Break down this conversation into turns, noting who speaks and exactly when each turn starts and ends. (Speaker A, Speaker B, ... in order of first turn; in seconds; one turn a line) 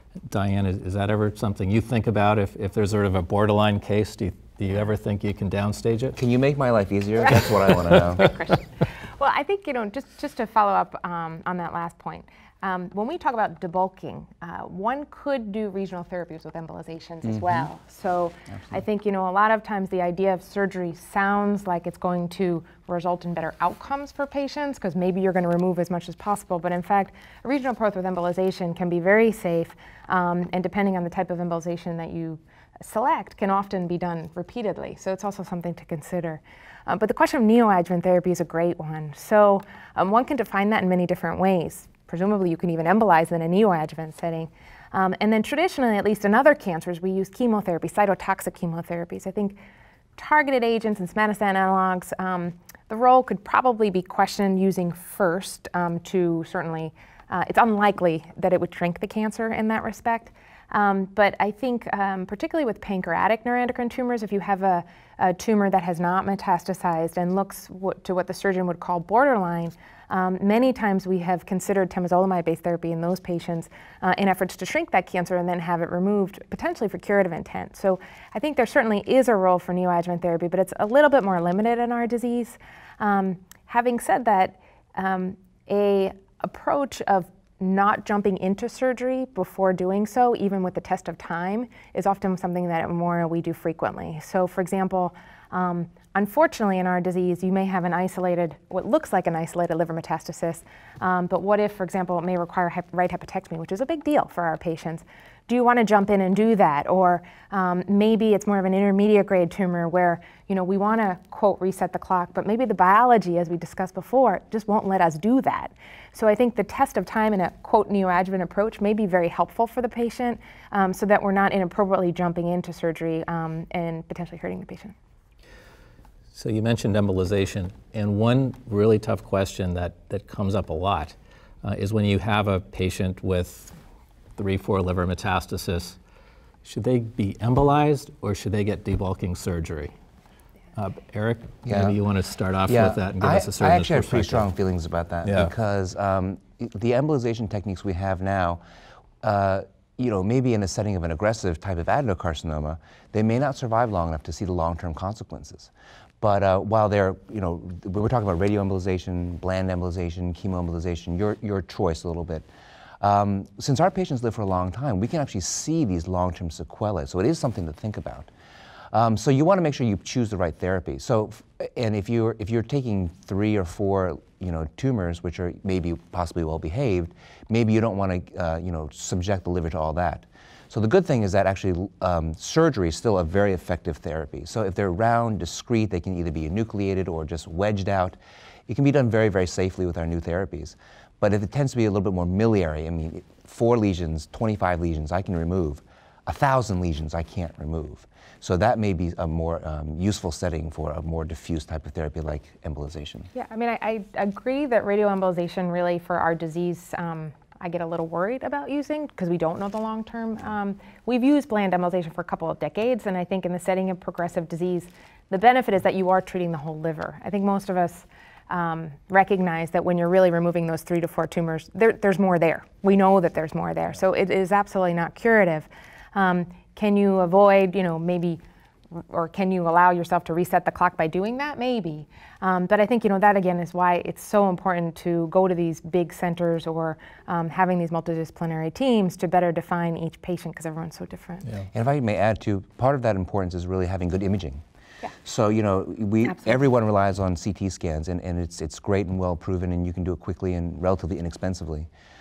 Speaker A: 0.3-6.2
Speaker B: 6.2-8.3
Speaker C: 8.2-49.6
Speaker B: 17.2-17.7
Speaker C: 50.1-124.9
Speaker A: 126.3-133.7
Speaker A: 134.4-136.0
Speaker A: 136.6-139.9
Speaker A: 140.8-144.5
Speaker B: 141.7-141.9
Speaker B: 142.7-148.6
Speaker A: 145.2-145.5
Speaker B: 149.2-162.4
Speaker B: 163.0-168.3
Speaker B: 168.9-188.2
Speaker B: 188.7-203.3
Speaker C: 203.3-228.4
Speaker C: 228.9-241.6
Speaker B: 241.7-244.6
Speaker B: 245.2-251.9